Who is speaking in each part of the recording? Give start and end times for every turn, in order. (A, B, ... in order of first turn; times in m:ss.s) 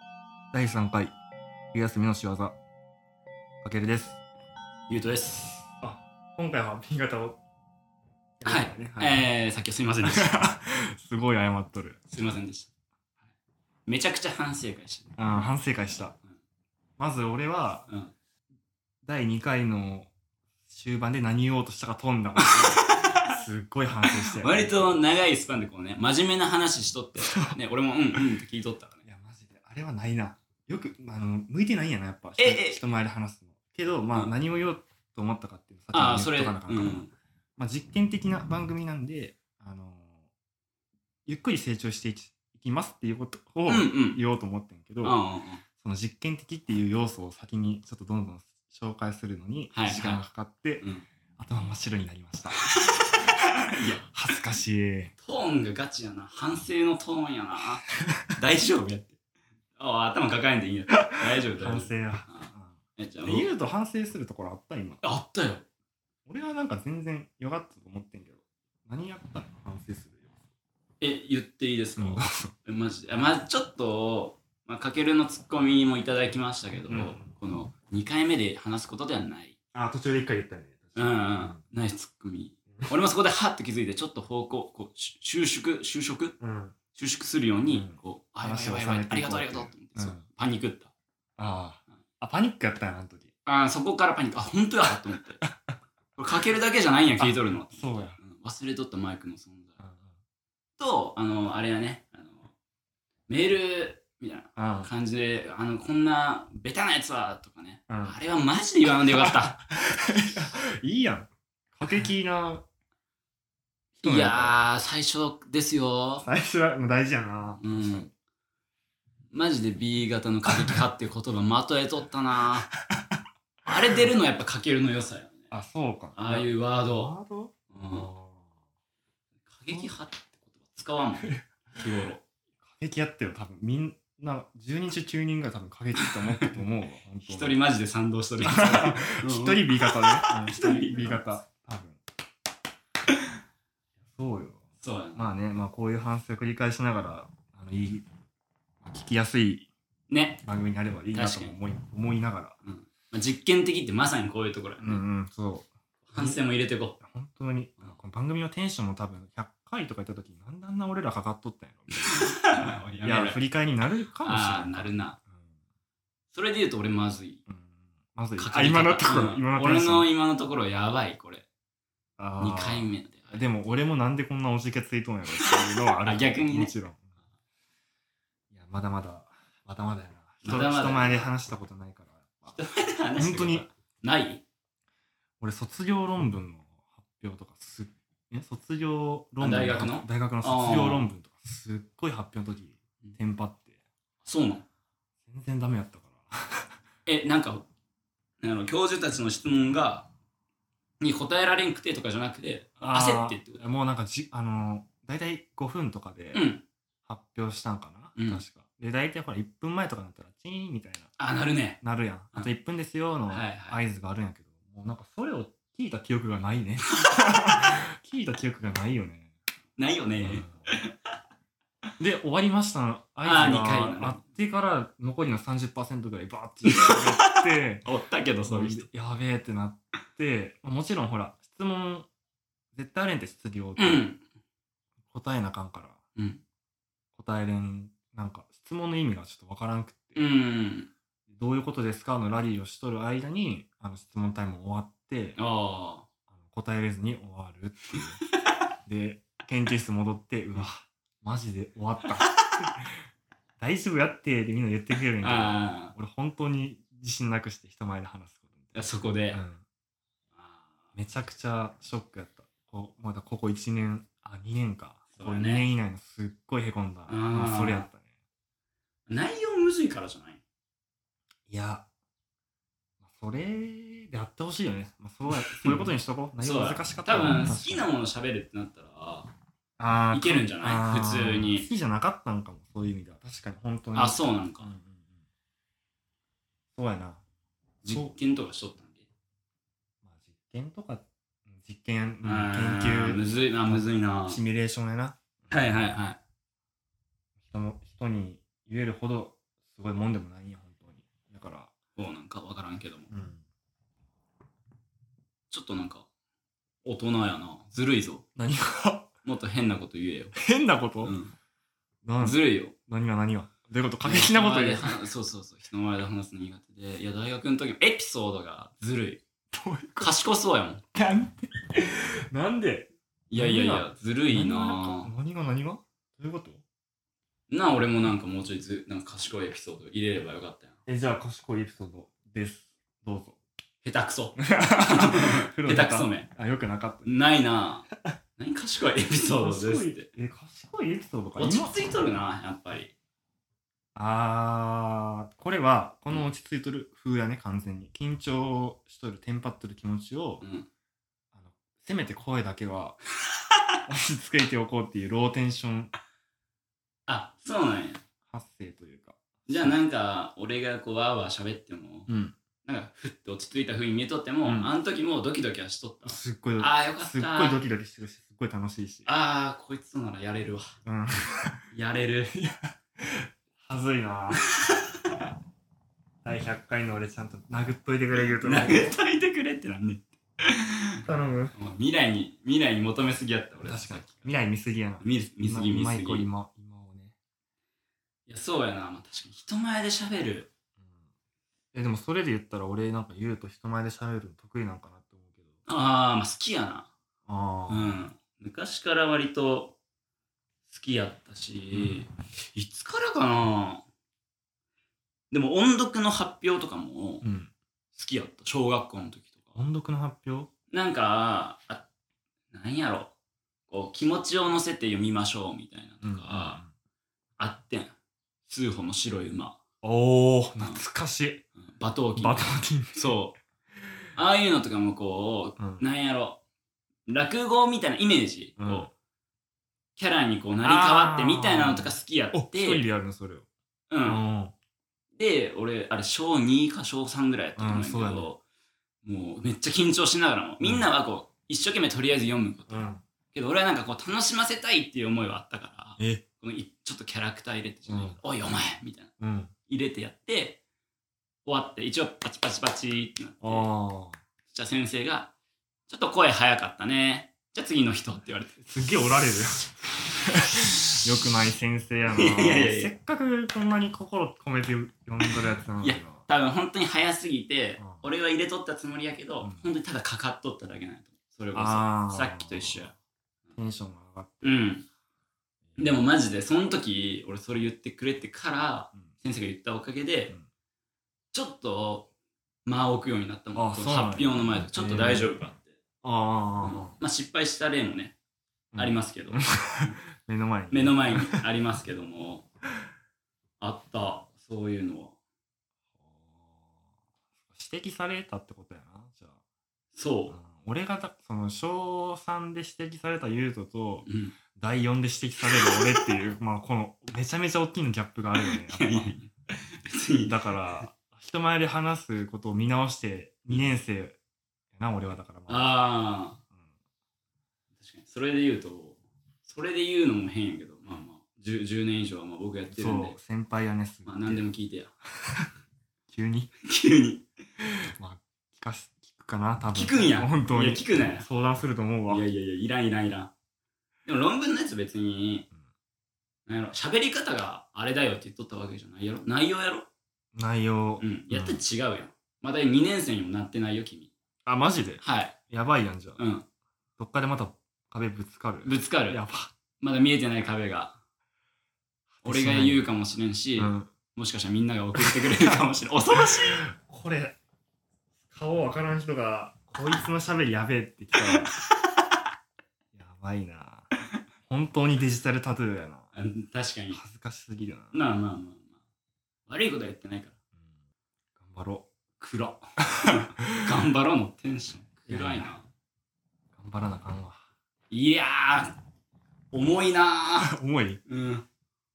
0:00.5-0:01.1 A
0:01.7-0:02.6 A
0:03.6-0:04.2 A
0:04.9-0:05.7 B
0:05.8-0:07.4 A
0:08.4-0:09.2 A
0:08.4-0:10.5 B
0:10.0-0:12.0 A
0:12.1-0:12.7 B
0:13.9-0:15.2 B
0:15.2-0:16.2 A
0:17.0-0:17.9 A
0:17.9-0:18.1 B
0:19.0-0:20.1 A
0:20.7-0:24.9 A
0:22.4-0:23.2 B
0:24.1-0:29.0 B
0:29.0-0:40.2 A
0:32.4-0:32.8 B
0:35.9-0:37.1 B
0:41.2-0:45.2 A
0:43.7-0:44.2 B
0:45.0-0:45.6 B
0:45.8-0:50.8 A
0:49.7-0:50.2 B
0:51.4-0:52.7 A
0:52.8-0:54.1 B
0:53.7-0:55.1 A
0:55.2-0:57.8 B
0:58.4-0:59.2 B
0:59.8-1:03.5 B
1:01.4-1:05.0 A
1:05.0-1:05.6 B
1:06.2-1:10.3 A
1:11.0-1:19.5 B
1:12.0-1:12.5 A
1:16.9-1:17.2 A
1:19.7-1:21.6 A
1:21.0-1:26.4 B
1:26.4-1:26.7 A
1:26.9-1:30.9 B
1:27.7-1:30.2 A
1:31.4-1:33.3 A
1:33.4-1:35.4 B
1:36.2-1:39.8 B
1:37.2-1:38.2 A
1:39.8-1:40.1 A
1:40.8-1:42.5 B
1:43.3-1:49.6 B
1:44.6-1:44.9 A
1:47.9-1:48.2 A
1:49.1-1:52.6 A
1:54.0-1:56.2 B
1:54.0-1:54.6 A
1:56.2-1:58.1 A
1:57.6-1:58.1 B
1:59.3-2:02.7 B
2:03.6-2:05.5 B
2:05.5-2:08.5 A
2:06.2-2:07.1 B
2:07.7-2:08.1 B
2:09.5-2:12.2 B
2:12.7-2:17.6 A
2:16.0-2:16.5 B
2:17.2-2:21.4 B
2:18.4-2:22.0 A
2:24.0-2:28.0 A
2:24.8-2:25.4 B
2:28.8-2:29.7 A
2:30.1-2:30.4 B
2:30.4-2:32.6 A
2:31.1-2:31.6 B
2:32.6-2:35.0 B
2:34.8-2:36.4 A
2:36.1-2:37.0 B
2:37.0-2:45.4 A
2:42.1-2:43.4 B
2:44.2-2:45.2 B
2:46.3-2:47.4 B
2:47.5-2:50.1 A
2:48.4-2:51.4 B
2:52.2-2:57.0 A
2:52.4-2:53.4 B
2:55.4-2:56.7 B
2:58.5-3:02.6 A
3:00.4-3:01.3 B
3:02.5-3:04.4 B
3:03.2-3:03.7 A
3:05.4-3:13.8 A
3:09.4-3:11.1 B
3:14.2-3:14.6 B
3:15.2-3:16.7 A
3:17.0-3:17.6 B
3:18.4-3:20.1 B
3:21.0-3:23.7 B
3:22.8-3:26.4 A
3:26.3-3:26.6 B
3:27.0-3:31.1 A
3:28.2-3:28.4 B
3:31.2-3:31.8 B
3:31.8-3:39.3 A
3:33.3-3:33.8 B
3:39.8-3:41.0 B
3:40.2-3:40.5 A
3:42.0-3:47.9 A
3:43.2-3:44.2 B
3:46.7-3:48.9 B
3:48.5-3:52.1 A
3:52.7-3:54.0 A
3:53.8-3:54.2 B
3:55.1-3:56.0 A
3:56.2-3:56.4 B
3:57.1-4:00.3 A
4:00.2-4:00.9 B
4:01.3-4:05.4 A
4:05.4-4:06.0 B
4:06.3-4:08.2 A
4:08.8-4:12.9 A
4:13.6-4:19.6 A
4:15.2-4:15.9 B
4:18.7-4:19.4 B
4:20.4-4:20.8 B
4:21.0-4:28.0 A
4:25.2-4:25.7 B
4:27.1-4:27.9 B
4:29.1-4:30.4 B
4:31.5-4:31.8 A
4:33.0-4:37.9 A
4:35.3-4:35.9 B
4:36.4-4:39.3 B
4:39.8-4:45.1 A
4:40.1-4:41.7 B
4:43.9-4:44.7 B
4:46.7-4:47.2 A
4:47.8-4:49.1 B
4:47.8-4:48.1 A
4:50.0-4:55.2 A
4:52.2-4:54.4 B
4:55.5-4:56.2 B
4:57.4-5:01.7 A
5:02.0-5:03.1 B
5:03.1-5:03.4 A
5:05.5-5:06.1 B
5:06.8-5:08.2 B
5:08.4-5:09.1 A
5:09.2-5:10.3 B
5:10.3-5:11.1 A
5:11.0-5:11.3 B
5:12.0-5:15.1 A
5:12.2-5:12.7 B
5:14.0-5:19.2 B
5:19.5-5:20.1 A
5:20.0-5:20.8 B
5:20.9-5:26.6 A
5:23.3-5:25.1 B
5:27.5-5:30.7 B
5:30.9-5:33.4 A
5:33.8-5:36.3 B
5:34.4-5:37.1 A
5:37.0-5:40.1 B
5:39.4-5:41.8 A
5:41.4-5:42.9 B
5:43.9-5:50.4 A
5:50.4-5:50.7 B
5:51.3-5:53.0 A
5:53.9-5:55.9 A
5:57.1-5:58.0 B
5:58.3-5:59.7 A
5:59.5-6:02.1 B
6:02.1-6:02.3 A
6:02.6-6:07.6 B
6:04.4-6:04.7 A
6:06.0-6:09.1 A
6:09.0-6:10.7 B
6:10.8-6:11.6 A
6:11.7-6:12.3 B
6:12.3-6:14.4 A
6:14.4-6:15.1 B
6:16.2-6:19.0 A
6:18.2-6:20.8 B
6:21.0-6:21.6 A
6:21.5-6:24.3 B
6:23.6-6:27.1 A
6:25.0-6:26.3 B
6:28.3-6:30.5 B
6:31.7-6:35.5 A
6:35.6-6:36.9 B
6:37.3-6:38.0 A
6:37.7-6:39.8 B
6:40.7-6:43.8 B
6:41.7-6:42.0 A
6:45.3-6:47.2 B
6:47.2-6:47.5 A
6:47.9-6:49.6 B
6:49.6-6:50.5 A
6:50.7-6:51.8 B
6:52.5-6:53.1 B
6:53.7-6:56.6 B
6:56.0-6:56.7 A
6:57.4-6:57.9 B
6:58.5-6:59.6 B
6:59.8-7:01.4 A
7:01.6-7:03.3 B
7:02.2-7:03.2 A
7:04.2-7:06.4 B
7:05.6-7:05.8 A
7:07.1-7:08.9 B
7:08.6-7:08.9 A
7:10.0-7:12.8 B
7:10.6-7:13.5 A
7:13.9-7:14.2 B
7:14.0-7:14.5 A
7:15.2-7:18.4 B
7:17.6-7:18.3 A
7:19.0-7:29.1 B
7:20.6-7:20.9 A
7:22.7-7:23.0 A
7:26.0-7:26.2 A
7:27.9-7:28.2 A
7:29.2-7:29.5 A
7:29.7-7:30.6 B
7:31.4-7:33.7 B
7:33.4-7:34.2 A
7:34.5-7:35.3 B
7:35.9-7:38.6 B
7:38.6-7:46.2 A
7:42.1-7:42.9 B
7:45.3-7:52.9 B
7:47.8-7:48.0 A
7:51.5-7:52.9 A
7:53.5-7:54.6 A
7:54.4-7:54.8 B
7:55.7-7:56.0 A
7:55.8-8:00.3 B
8:01.3-8:02.1 B
8:02.6-8:05.8 B
8:03.5-8:05.3 A
8:06.0-8:06.9 A
8:06.6-8:08.1 B
8:08.7-8:11.3 A
8:08.8-8:10.0 B
8:10.7-8:12.4 B
8:13.6-8:15.1 B
8:16.0-8:16.6 A
8:17.5-8:19.4 A
8:19.9-8:20.4 B
8:20.3-8:29.1 A
8:24.0-8:24.4 B
8:25.6-8:26.1 B
8:28.4-8:30.9 B
8:30.2-8:34.2 A
8:34.7-8:35.7 A
8:35.5-8:36.4 B
8:37.8-8:43.2 B
8:42.7-8:44.4 A
8:44.0-8:44.9 B
8:46.1-8:46.5 A
8:46.6-8:47.2 B
8:47.6-8:52.2 A
8:49.7-8:51.2 B
8:52.1-8:53.3 B
8:54.0-8:55.5 B
8:56.5-8:59.9 B
9:00.3-9:01.6 A
9:01.0-9:04.1 B
9:04.4-9:06.2 A
9:05.0-9:05.4 B
9:06.2-9:06.4 B
9:07.0-9:09.5 A
9:08.6-9:09.2 B
9:09.8-9:11.0 B
9:12.2-9:12.9 A
9:12.2-9:16.6 B
9:13.6-9:13.9 A
9:15.0-9:15.6 A
9:16.2-9:17.4 A
9:18.3-9:21.5 A
9:21.2-9:21.7 B
9:22.9-9:23.9 A
9:24.4-9:26.1 A
9:26.1-9:27.0 B
9:26.9-9:28.0 A
9:27.9-9:28.8 B
9:29.5-9:30.3 B
9:31.4-9:31.9 A
9:32.2-9:35.6 B
9:35.1-9:35.5 A
9:36.5-9:37.4 A
9:37.9-9:38.8 B
9:39.5-9:40.5 B
9:40.3-9:41.0 A
9:41.1-9:41.4 B